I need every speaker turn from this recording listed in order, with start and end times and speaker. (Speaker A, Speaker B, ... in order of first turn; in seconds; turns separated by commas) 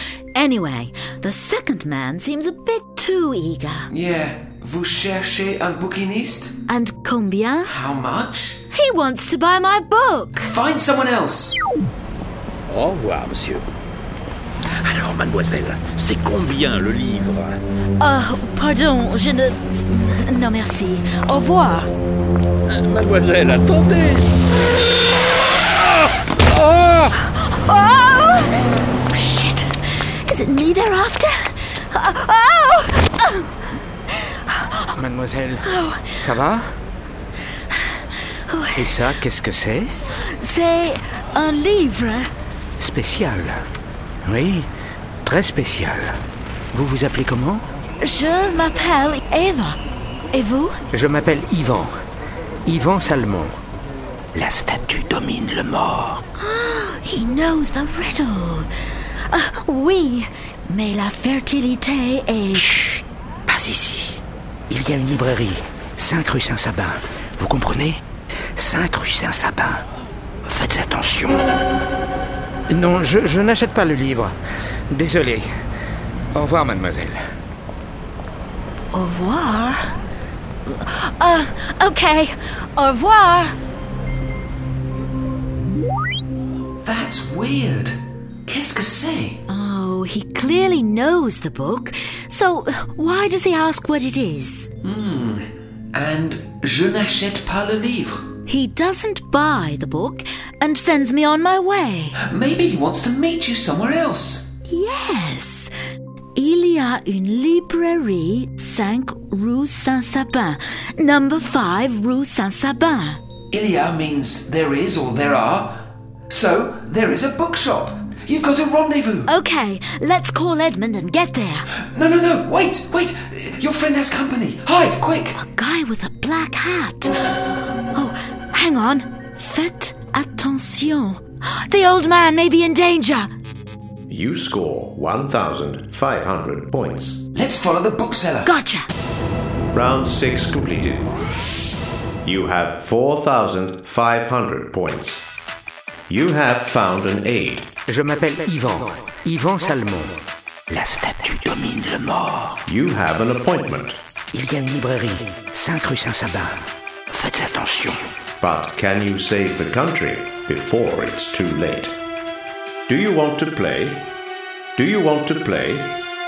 Speaker A: 0.3-3.9, Speaker B: 3.9-6.5, Speaker A: 6.7-7.7, Speaker B: 7.6-8.6, Speaker A: 8.7-10.5, Speaker B: 10.4-11.6, Speaker C: 12.7-13.7, Speaker C: 14.7-17.6, Speaker A: 18.0-21.9, Speaker C: 22.6-24.3, Speaker C: 25.6-27.1, Speaker A: 27.3-33.5, Speaker A: 34.1-34.9, Speaker D: 34.9-36.7, Speaker A: 35.6-36.2, Speaker A: 38.5-38.9, Speaker D: 38.8-39.9, Speaker A: 40.2-42.3, Speaker D: 42.8-43.6, Speaker D: 44.2-44.7, Speaker D: 45.2-46.2, Speaker D: 46.7-47.6, Speaker A: 48.0-49.8, Speaker A: 50.3-50.8, Speaker D: 50.9-51.9, Speaker D: 52.6-53.5, Speaker D: 54.3-56.2, Speaker A: 56.4-58.7, Speaker A: 59.3-62.7, Speaker D: 62.6-68.0, Speaker D: 68.5-69.8, Speaker D: 70.4-71.5, Speaker D: 72.7-74.3, Speaker D: 74.9-75.5, Speaker D: 76.3-77.2, Speaker A: 78.9-79.9, Speaker A: 80.6-83.5, Speaker B: 86.8-89.4, Speaker A: 89.5-94.7, Speaker B: 94.8-98.2, Speaker A: 98.5-102.2, Speaker B: 102.2-104.4, Speaker A: 104.7-105.7, Speaker A: 106.3-113.2, Speaker B: 113.5-115.8, Speaker B: 116.3-119.3, Speaker A: 119.2-121.7, Speaker B: 121.9-125.3, Speaker A: 125.3-127.3, Speaker A: 127.9-133.3, Speaker E: 134.1-137.2, Speaker B: 137.3-138.5, Speaker A: 138.4-138.8, Speaker E: 139.7-141.1, Speaker E: 142.2-145.3, Speaker E: 146.1-147.7, Speaker D: 147.9-152.6, Speaker E: 152.7-154.0, Speaker D: 154.3-158.1, Speaker E: 158.4-161.9, Speaker E: 162.9-164.1, Speaker E: 164.8-166.0